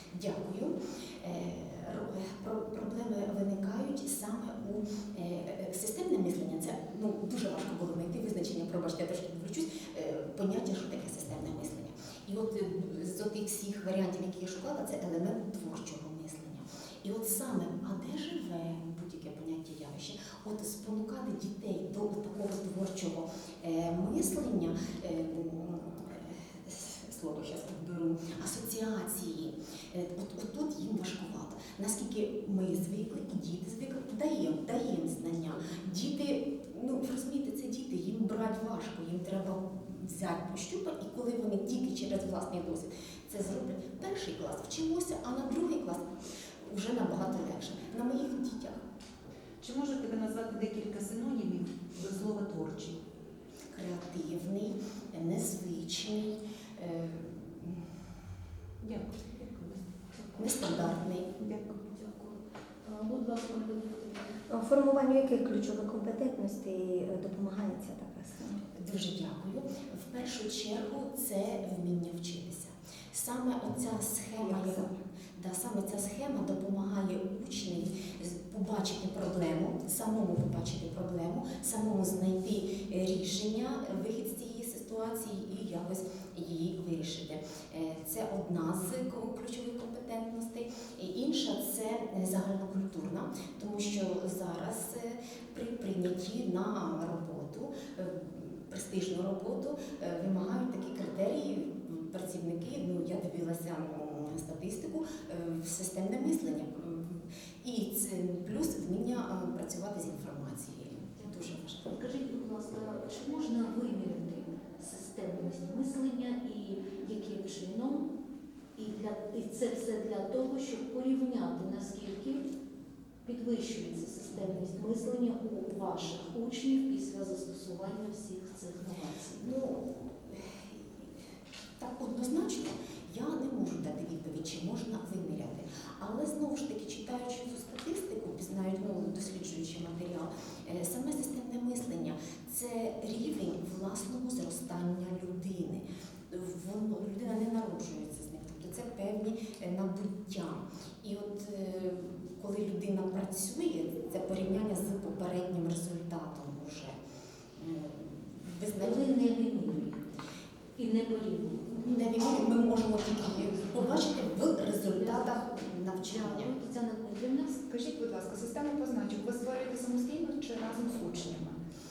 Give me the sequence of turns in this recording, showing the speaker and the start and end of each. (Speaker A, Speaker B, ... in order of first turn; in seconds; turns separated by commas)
Speaker A: 0.1-46.1, Speaker A: 46.6-48.8, Speaker B: 49.6-53.0, Speaker A: 53.7-57.9, Speaker B: 58.8-59.8, Speaker C: 60.2-60.6, Speaker A: 60.4-61.3, Speaker C: 61.8-64.4, Speaker D: 64.5-68.6, Speaker A: 68.7-111.9, Speaker D: 74.5-74.8, Speaker C: 111.8-118.1, Speaker C: 118.8-122.5, Speaker C: 123.2-129.4, Speaker A: 129.4-131.1, Speaker A: 131.8-157.0, Speaker A: 157.6-159.1, Speaker C: 158.8-160.1, Speaker C: 160.8-161.8, Speaker A: 161.7-166.5, Speaker C: 164.8-167.6, Speaker E: 167.7-171.6